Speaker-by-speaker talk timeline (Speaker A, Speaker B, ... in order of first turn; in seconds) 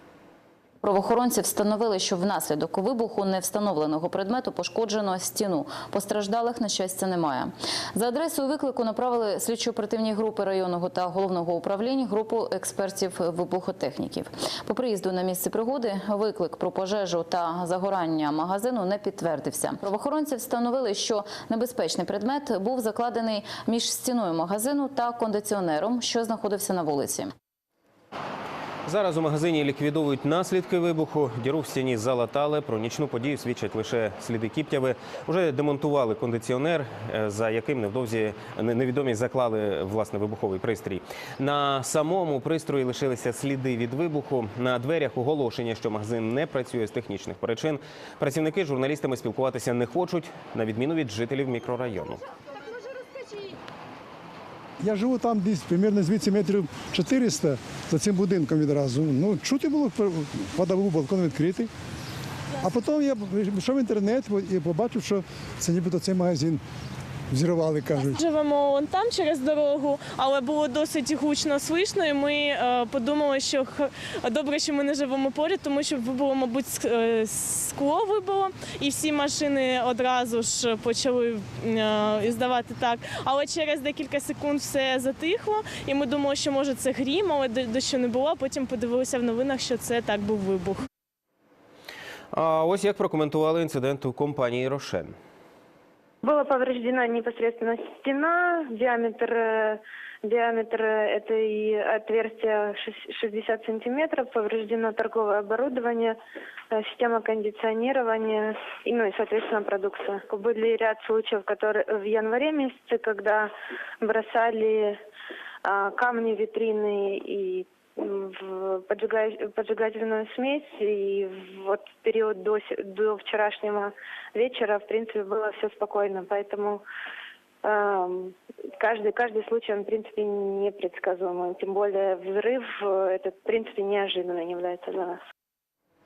Speaker A: 0.8-27.3
Speaker B: 28.9-52.2, 92.3-95.2
Speaker C: 54.8-61.7, 62.6-66.6, 67.3-68.2
Speaker D: 68.1-90.8
Speaker E: 96.2-106.2, 106.7-113.5, 114.0-115.0, 115.7-126.8, 127.6-135.2